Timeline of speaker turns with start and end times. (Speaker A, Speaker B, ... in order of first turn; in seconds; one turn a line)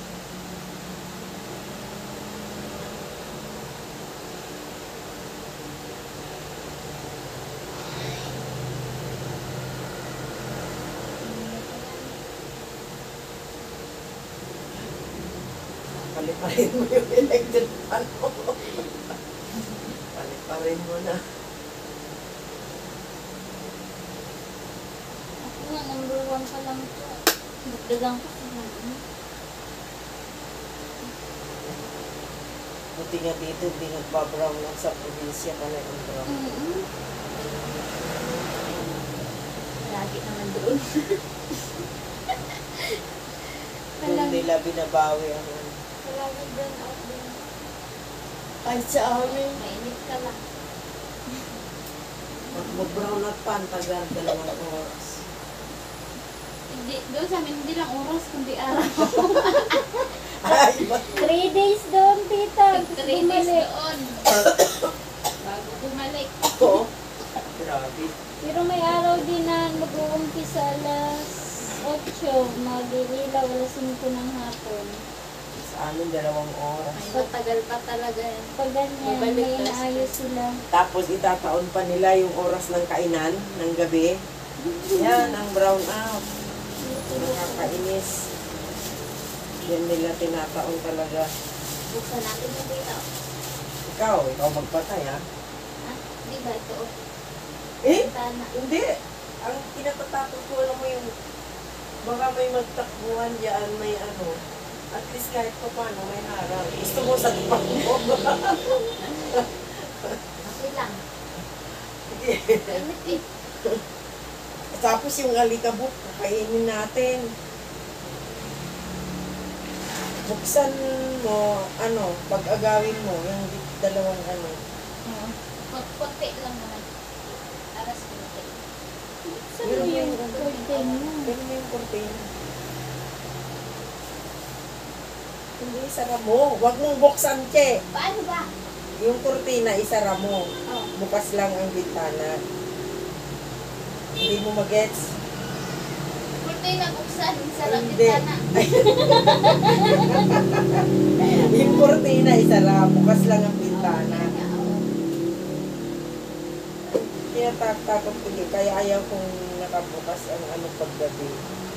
Speaker A: 11.2-12.1
Speaker B: 15.9-18.9
Speaker B: 20.0-21.3
Speaker A: 25.5-27.1
Speaker C: 27.7-28.3
Speaker A: 27.8-29.0
Speaker B: 32.9-36.3
Speaker A: 36.3-36.9
Speaker A: 39.8-41.2
Speaker A: 44.0-44.4
Speaker B: 44.0-45.8
Speaker A: 46.0-47.2
Speaker C: 46.9-47.3
Speaker B: 48.6-49.6
Speaker A: 49.2-50.4
Speaker B: 52.5-55.2
Speaker A: 56.7-61.2
Speaker B: 60.1-61.2
Speaker C: 61.1-63.6
Speaker A: 62.7-64.3
Speaker B: 64.3-64.9
Speaker A: 65.4-66.7
Speaker B: 66.5-66.9
Speaker B: 67.4-68.1
Speaker C: 68.4-75.0
Speaker B: 75.6-77.0
Speaker A: 76.9-78.5
Speaker C: 78.6-80.6
Speaker A: 79.0-80.1
Speaker B: 80.7-84.2
Speaker C: 84.8-85.3
Speaker B: 84.9-86.2
Speaker C: 86.8-87.7
Speaker B: 87.1-88.1
Speaker B: 89.7-91.3
Speaker A: 91.9-93.1
Speaker B: 93.8-95.2
Speaker A: 95.8-96.9
Speaker B: 97.8-98.9
Speaker A: 97.9-98.5
Speaker B: 99.4-101.1
Speaker B: 102.0-104.4
Speaker B: 104.9-110.2
Speaker A: 110.4-111.0
Speaker B: 111.7-112.8
Speaker A: 112.7-113.2
Speaker B: 114.7-117.3
Speaker B: 120.2-124.6
Speaker A: 125.6-126.8
Speaker A: 127.7-128.6
Speaker C: 129.2-131.3
Speaker B: 129.6-130.3
Speaker A: 130.2-131.0
Speaker B: 131.2-132.2
Speaker B: 135.6-137.8
Speaker A: 137.9-138.5
Speaker B: 139.0-142.4
Speaker B: 144.2-145.1
Speaker A: 146.4-148.4
Speaker B: 147.6-154.3
Speaker C: 148.8-150.1
Speaker A: 151.2-151.9
Speaker A: 153.7-154.9
Speaker B: 156.9-161.4